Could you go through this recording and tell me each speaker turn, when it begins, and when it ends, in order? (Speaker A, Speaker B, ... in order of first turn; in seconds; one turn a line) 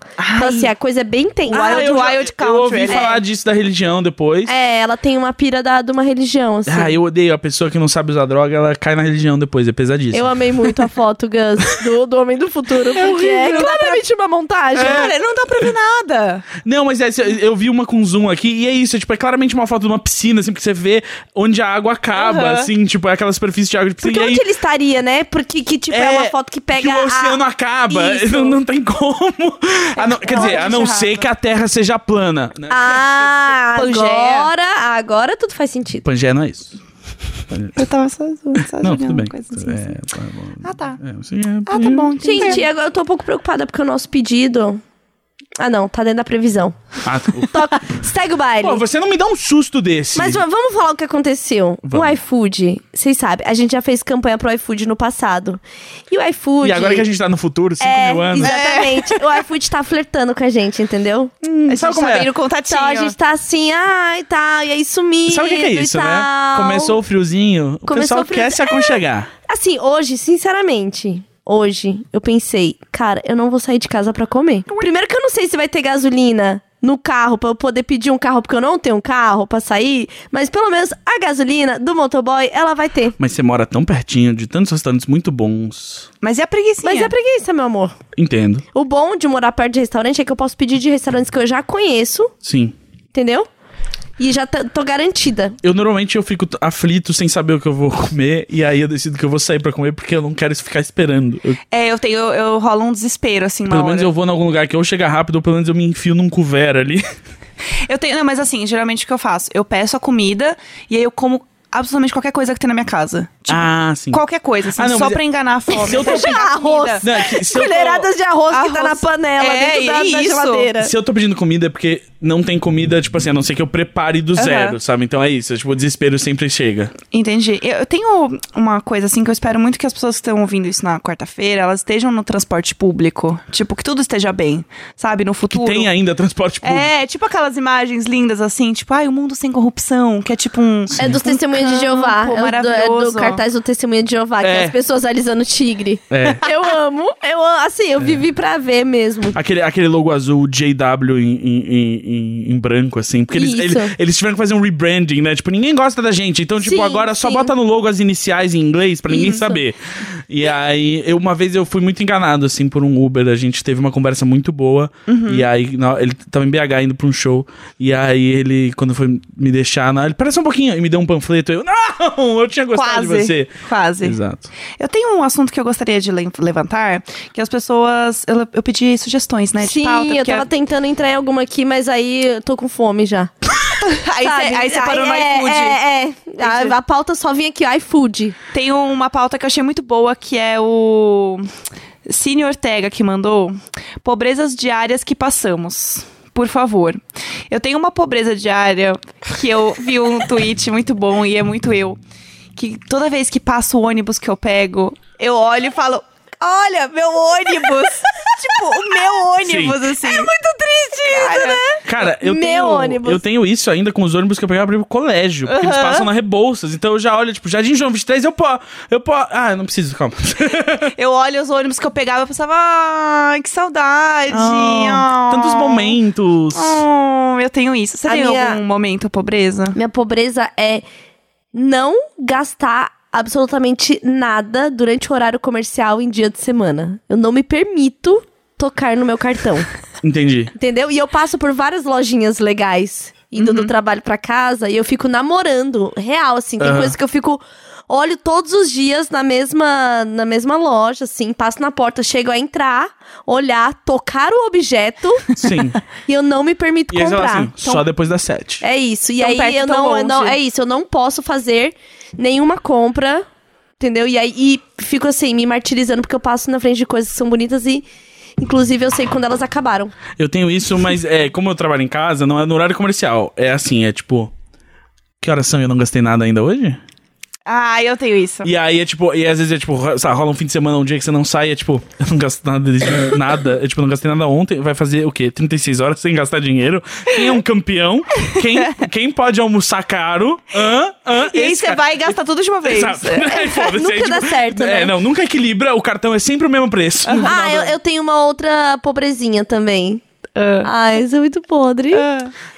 Speaker A: 0.2-0.7
Speaker B: 0.4-1.9
Speaker A: 1.5-3.2
Speaker C: 1.5-4.5
Speaker B: 2.9-3.2
Speaker B: 4.5-7.0
Speaker C: 6.7-10.4
Speaker B: 10.1-15.1
Speaker A: 12.9-14.0
Speaker A: 14.8-16.5
Speaker C: 14.8-15.1
Speaker C: 16.6-24.4
Speaker A: 22.1-22.7
Speaker B: 24.0-28.6
Speaker C: 25.9-33.3
Speaker A: 30.0-31.3
Speaker B: 32.7-36.1
Speaker A: 33.7-34.5
Speaker C: 36.0-36.8
Speaker C: 37.5-37.8
Speaker A: 37.8-39.9
Speaker C: 38.6-42.1
Speaker A: 40.6-41.0
Speaker A: 41.7-42.6
Speaker B: 42.2-44.8
Speaker B: 45.6-46.8
Speaker C: 47.0-48.0
Speaker B: 47.4-48.8
Speaker C: 48.6-50.4
Speaker B: 50.2-57.1
Speaker C: 51.9-52.2
Speaker C: 56.6-58.5
Speaker B: 57.8-61.7
Speaker A: 58.4-59.4
Speaker A: 61.7-63.1
Speaker C: 61.7-62.3
Speaker B: 62.7-67.0
Speaker C: 65.3-69.3
Speaker B: 67.9-83.2
Speaker C: 83.2-86.1
Speaker A: 86.2-87.1
Speaker B: 86.8-87.9
Speaker C: 88.2-88.6
Speaker B: 88.7-92.3
Speaker C: 92.4-92.8
Speaker B: 93.1-93.5
Speaker B: 94.2-95.6
Speaker C: 95.6-101.6
Speaker A: 101.7-104.1
Speaker C: 103.7-107.0
Speaker A: 107.8-117.1
Speaker C: 113.5-114.2
Speaker C: 114.8-115.2
Speaker C: 115.9-116.5
Speaker B: 115.9-120.9
Speaker C: 117.0-118.1
Speaker A: 118.5-120.7
Speaker C: 120.8-126.9
Speaker A: 124.4-124.8
Speaker A: 127.1-135.9
Speaker C: 135.5-136.9
Speaker A: 136.6-143.4
Speaker B: 141.0-149.4
Speaker C: 144.4-144.8
Speaker C: 146.1-146.4
Speaker C: 149.3-159.8
Speaker B: 153.3-153.9
Speaker B: 156.6-157.5
Speaker B: 159.1-159.6
Speaker C: 160.3-174.5
Speaker A: 165.1-165.4
Speaker A: 172.7-174.2
Speaker A: 174.8-180.5
Speaker B: 179.6-183.5
Speaker A: 183.8-185.8
Speaker B: 184.2-188.3
Speaker A: 186.4-186.8
Speaker A: 188.5-191.5
Speaker A: 192.1-202.0
Speaker A: 202.6-210.3
Speaker C: 209.4-209.8
Speaker B: 210.0-213.2
Speaker A: 211.1-211.8
Speaker C: 211.8-220.9
Speaker A: 215.5-216.1
Speaker A: 220.9-226.0
Speaker C: 224.3-226.8
Speaker A: 226.5-229.8
Speaker B: 228.1-228.6
Speaker B: 229.7-230.8
Speaker B: 231.5-239.7
Speaker C: 240.0-240.5
Speaker B: 240.6-255.4
Speaker A: 243.4-243.7
Speaker C: 246.6-247.0
Speaker C: 255.4-255.8
Speaker B: 256.1-257.8
Speaker C: 256.9-258.6
Speaker B: 258.6-263.2
Speaker A: 259.2-260.4
Speaker B: 263.8-267.9
Speaker B: 268.4-269.9
Speaker C: 270.2-274.3
Speaker C: 275.2-276.8
Speaker A: 277.5-278.5
Speaker C: 278.4-292.1
Speaker A: 288.4-288.8
Speaker A: 291.3-293.4
Speaker C: 292.7-297.8
Speaker B: 293.3-294.9
Speaker A: 297.1-297.4
Speaker B: 297.2-300.0
Speaker A: 300.4-300.7
Speaker B: 300.6-302.1
Speaker A: 301.9-302.3